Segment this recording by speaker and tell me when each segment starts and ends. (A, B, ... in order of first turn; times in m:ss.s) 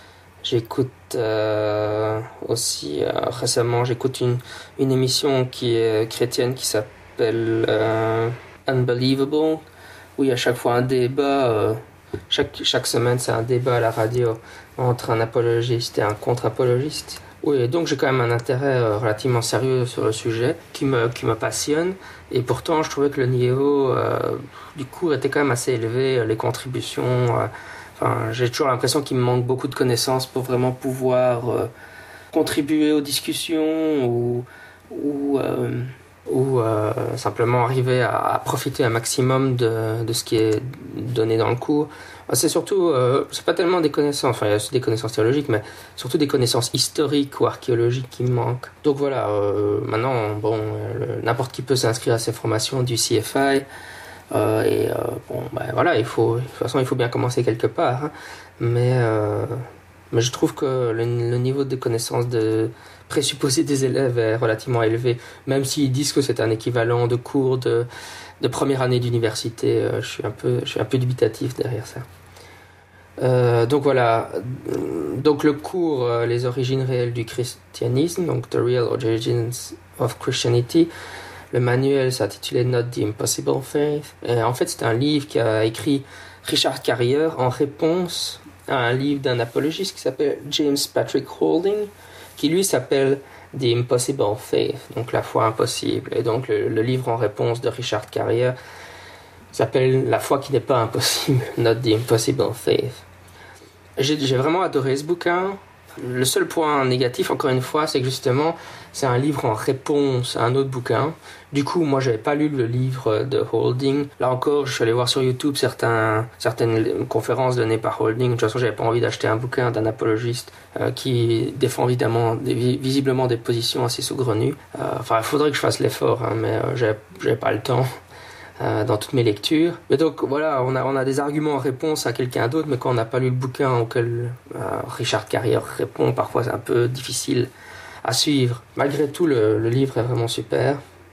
0:00.4-0:09.6 A
0:10.2-0:31.7 A
0:32.3-0:53.6 A
0:54.3-1:07.9 A
1:08.4-1:12.0 A
1:13.2-1:20.9 A
1:21.5-1:38.5 A
1:39.5-1:43.0 A
1:44.0-2:07.9 A
2:08.6-2:17.5 A
2:18.0-2:20.8 A